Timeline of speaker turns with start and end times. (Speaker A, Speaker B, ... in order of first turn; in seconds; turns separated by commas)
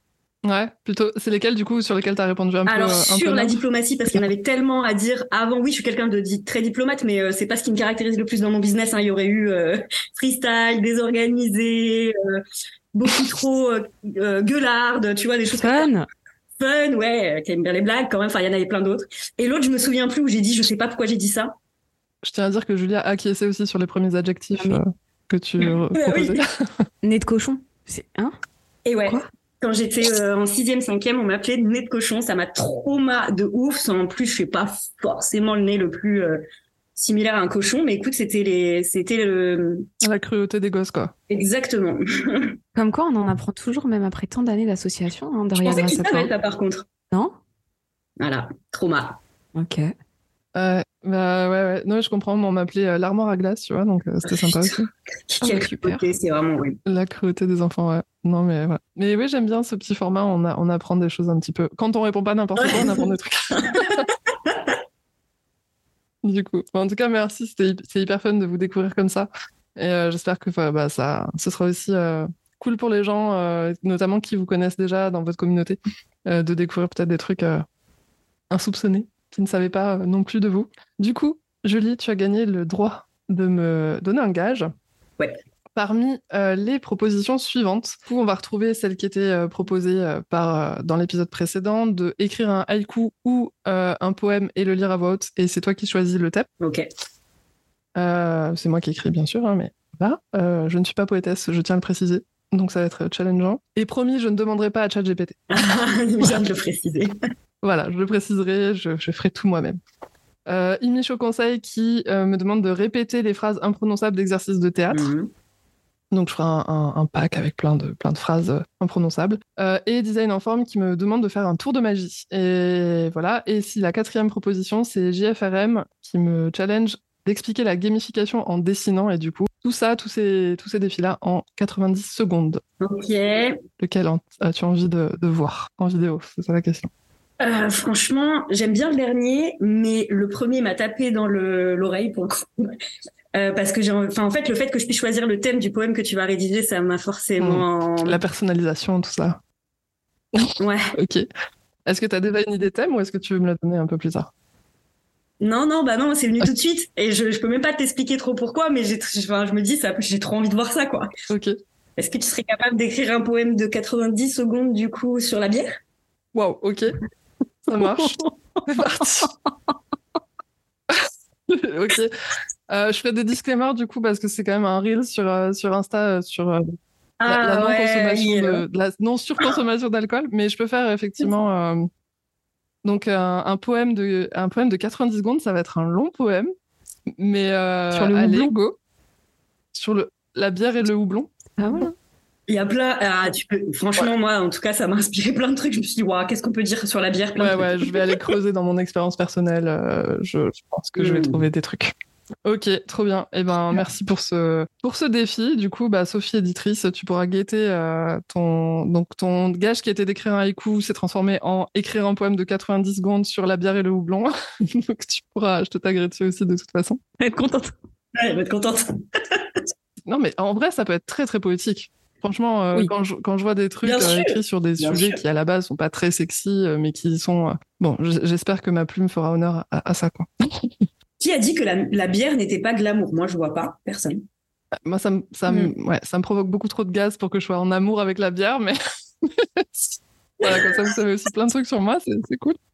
Speaker A: 0.4-3.6, Speaker B: 2.6-15.9, Speaker C: 15.5-16.1, Speaker B: 16.6-21.5, Speaker A: 22.2-26.6, Speaker B: 25.6-26.4, Speaker C: 27.0-28.3, Speaker B: 28.8-36.4, Speaker B: 37.0-39.9, Speaker A: 40.0-41.1, Speaker B: 41.3-42.6, Speaker C: 42.7-46.3, Speaker B: 45.6-46.9, Speaker C: 47.1-47.4, Speaker B: 48.2-49.2, Speaker C: 49.5-49.9, Speaker A: 50.5-54.9, Speaker B: 54.3-54.8, Speaker B: 55.3-56.8, Speaker C: 55.4-56.1, Speaker A: 56.9-64.0, Speaker B: 62.5-64.8, Speaker A: 66.2-77.6, Speaker A: 78.5-84.7, Speaker A: 85.7-96.5, Speaker B: 96.6-96.9, Speaker A: 98.0-105.6, Speaker B: 105.5-107.2, Speaker A: 107.6-109.8, Speaker A: 110.5-115.1, Speaker B: 114.9-115.3, Speaker A: 116.1-132.6, Speaker B: 132.8-133.6, Speaker A: 133.8-136.9, Speaker B: 137.4-142.8, Speaker B: 143.3-148.2, Speaker A: 147.4-149.4, Speaker B: 150.6-150.9, Speaker A: 150.9-151.3, Speaker A: 151.9-154.3, Speaker B: 155.4-161.1, Speaker A: 161.3-161.6, Speaker B: 162.0-165.8, Speaker A: 166.3-166.9, Speaker A: 167.7-169.3, Speaker A: 170.9-172.1, Speaker A: 172.7-176.7, Speaker B: 177.2-178.6, Speaker A: 177.3-181.9, Speaker A: 182.8-186.5, Speaker A: 187.1-188.8, Speaker C: 187.9-188.5, Speaker A: 189.7-191.3, Speaker C: 191.6-191.9, Speaker B: 192.5-198.1, Speaker A: 197.4-201.9, Speaker B: 200.9-201.4, Speaker A: 202.4-217.0, Speaker C: 217.2-217.7, Speaker B: 218.1-219.5, Speaker A: 220.1-230.7, Speaker B: 223.8-225.2, Speaker B: 231.2-234.2, Speaker A: 234.8-238.8, Speaker B: 235.5-235.7, Speaker A: 239.4-242.6